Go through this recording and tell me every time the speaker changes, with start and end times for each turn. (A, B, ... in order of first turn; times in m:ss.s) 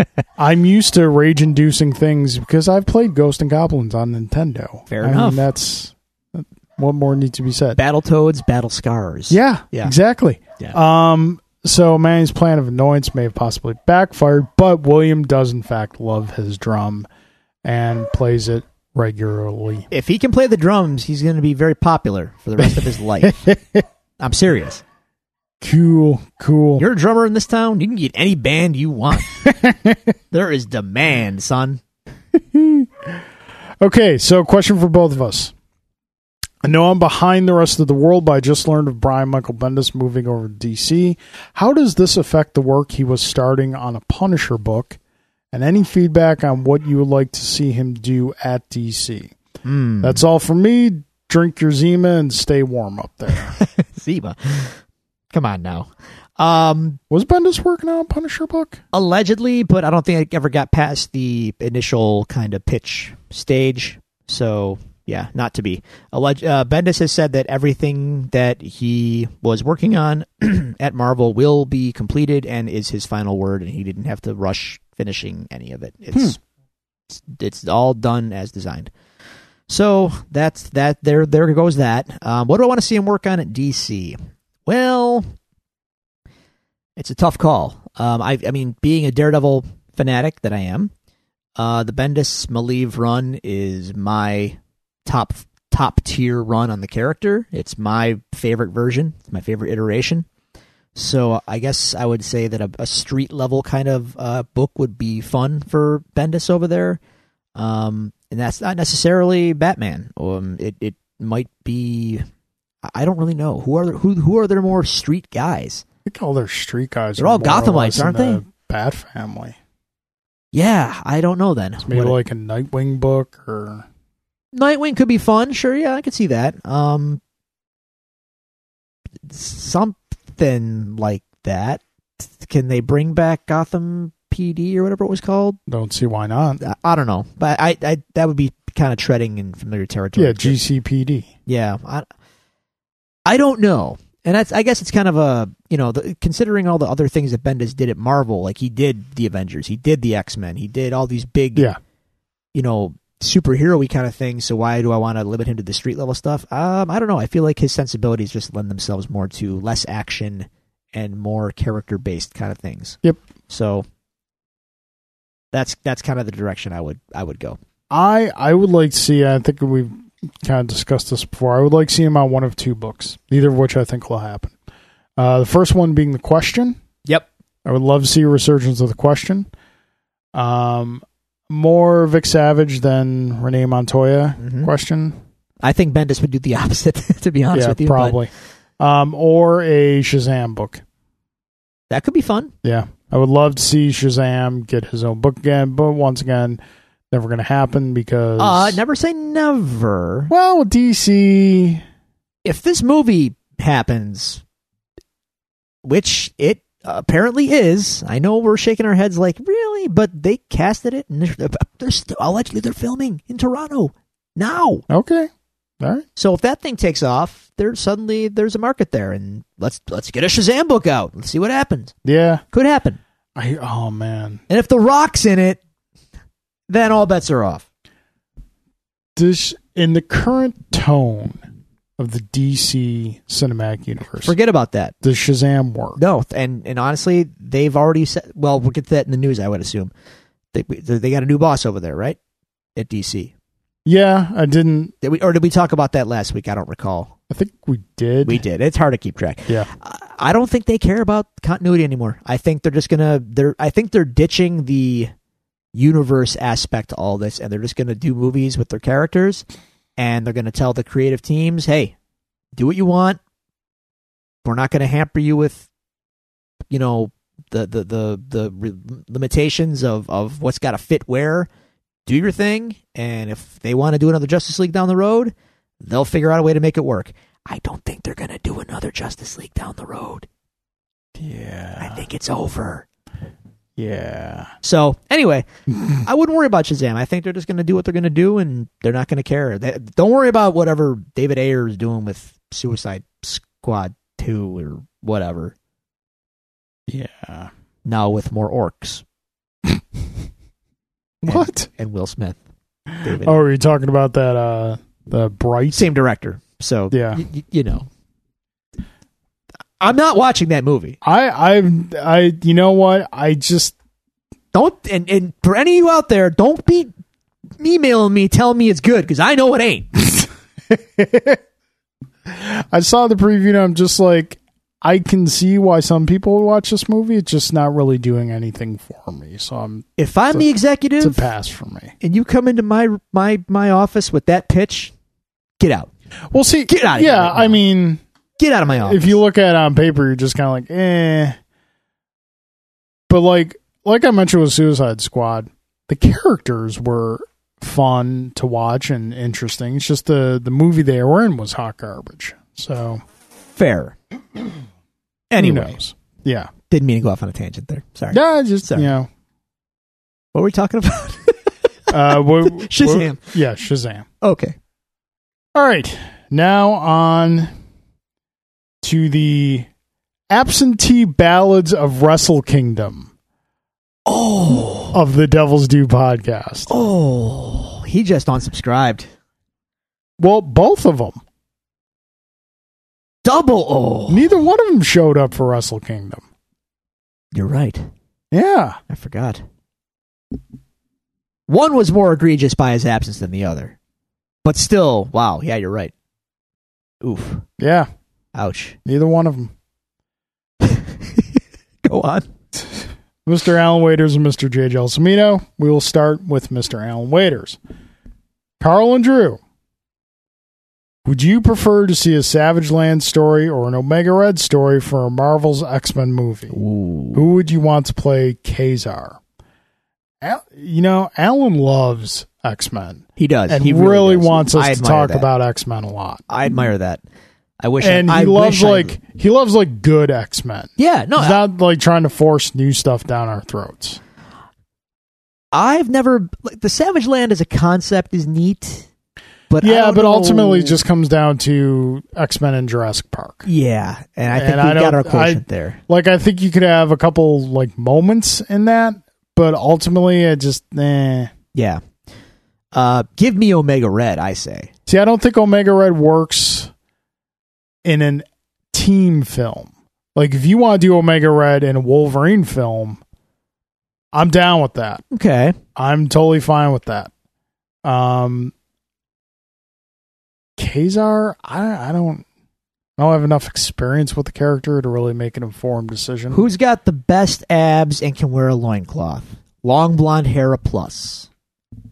0:00.4-0:07.8 A
0:04.9-0:05.4 B
0:07.8-0:09.9 B
0:09.3-0:17.1 A
0:17.6-0:19.9 A
0:19.9-0:23.4 B
0:23.2-0:23.8 A
0:24.2-0:24.8 B
0:25.6-0:26.8 A
0:26.8-0:29.3 B
0:29.3-0:30.0 A
0:30.3-0:31.8 B
0:32.4-0:33.2 A
0:33.8-0:35.5 A
0:36.6-0:45.0 A
0:45.5-0:49.3 A
0:49.6-0:50.2 B
0:50.0-0:53.6 A
0:53.5-0:54.8 B
0:55.3-0:57.0 B
0:57.1-0:58.8 A
0:58.9-1:16.4 B
1:17.1-1:18.9 B
1:19.7-1:25.3 B
1:27.0-1:30.9 B
1:31.6-1:40.2 B
1:40.9-1:47.0 B
1:47.6-1:52.2 B
1:52.8-1:55.8 B
1:56.0-1:59.6 A
1:57.2-1:58.4 B
2:00.5-2:02.2 B
2:01.8-2:03.8 A
2:04.5-2:07.2 B
2:09.3-2:15.6 B
2:15.7-2:16.6 A
2:16.6-2:20.6 B
2:20.2-2:21.3 A
2:21.5-2:22.0 B
2:23.2-2:31.7 B
2:32.5-2:43.8 B
2:45.5-2:47.6 B
2:47.9-2:54.5 A
2:55.2-2:56.8 A
2:57.6-2:59.5 A
3:00.3-3:05.2 A
3:04.4-3:04.7 B
3:05.6-3:08.2 B
3:07.5-3:10.8 A
3:11.9-3:12.5 B
3:12.6-3:18.8 A
3:18.4-3:20.3 B
3:20.3-3:21.8 A
3:22.4-3:24.4 B
3:25.8-3:34.8 B
3:34.9-3:35.3 A
3:35.8-3:36.0 A
3:36.2-3:41.9 B
3:42.0-3:42.4 A
3:42.5-3:43.0 B
3:43.4-3:44.4 A
3:44.5-3:45.6 B
3:46.7-3:47.6 B
3:49.2-3:51.4 A
3:52.0-3:54.3 A
3:54.2-3:54.9 B
3:55.0-3:56.0 A
3:56.0-3:59.9 B
4:00.5-4:02.2 B
4:02.8-4:03.3 B
4:03.8-4:04.9 A
4:05.0-4:07.1 B
4:07.3-4:08.4 A
4:08.2-4:15.1 B
4:15.7-4:19.4 B
4:20.0-4:21.9 B
4:22.6-4:23.2 B
4:24.4-4:25.7 B
4:26.7-4:31.5 B
4:32.0-4:40.3 B
4:41.2-4:42.0 A
4:41.8-4:42.8 B
4:43.8-4:44.5 A
4:44.6-4:55.5 B
4:56.9-4:57.5 A
4:57.8-4:59.0 B
5:01.2-5:01.7 A
5:01.2-5:02.4 B
5:03.0-5:03.4 B
5:03.2-5:05.9 A
5:05.7-5:07.9 B
5:06.9-5:07.2 A
5:09.8-5:11.0 B
5:11.0-5:13.7 A
5:14.5-5:16.9 B
5:17.6-5:19.9 B
5:20.0-5:21.4 A
5:22.3-5:30.5 A
5:30.0-5:31.2 B
5:31.0-5:31.9 A
5:32.0-5:34.9 B
5:35.6-5:35.9 B
5:36.3-5:38.0 A
5:36.7-5:37.6 B
5:38.4-5:39.2 B
5:38.8-5:41.4 A
5:43.1-5:53.0 A
5:53.6-5:54.0 B
5:55.3-5:55.8 B
5:55.4-5:56.5 A
5:56.7-5:58.9 B
5:58.1-5:59.1 A
6:00.3-6:01.5 B
6:01.9-6:04.0 A
6:02.1-6:03.2 B
6:04.2-6:04.6 B
6:05.5-6:07.5 A
6:08.8-6:09.7 A
6:10.3-6:13.1 A
6:14.0-6:15.0 B
6:14.9-6:16.7 A
6:16.7-6:19.1 B
6:20.2-6:21.2 A
6:23.2-6:24.3 B
6:24.1-6:26.2 A
6:27.3-6:27.9 B
6:28.3-6:28.8 A
6:28.9-6:29.4 B
6:31.5-6:33.8 B
6:34.4-6:35.9 B
6:37.0-6:37.4 B
6:37.6-6:37.9 A
6:38.3-6:38.8 B
6:38.8-6:39.5 A
6:40.6-6:41.2 B
6:41.8-6:42.3 B
6:42.7-6:47.6 A
6:48.6-6:49.4 A
6:51.0-6:56.6 A
6:56.5-6:57.2 B
6:57.1-6:59.2 A
7:00.2-7:06.2 A
7:03.2-7:05.3 B
7:06.3-7:07.0 B
7:07.6-7:09.0 B
7:07.8-7:14.0 A
7:10.8-7:11.4 B
7:15.5-7:18.9 B
7:19.5-7:20.8 B
7:19.6-7:23.5 A
7:23.4-7:25.8 B
7:24.3-7:31.3 A
7:31.5-7:31.8 B
7:32.7-7:34.7 B
7:34.9-7:36.7 A
7:37.8-7:43.0 A
7:44.1-7:45.0 A
7:45.1-7:45.6 B
7:45.8-7:47.1 A
7:47.8-7:48.5 A
7:50.6-7:52.2 A
7:53.0-7:56.4 A
7:56.3-8:01.3 B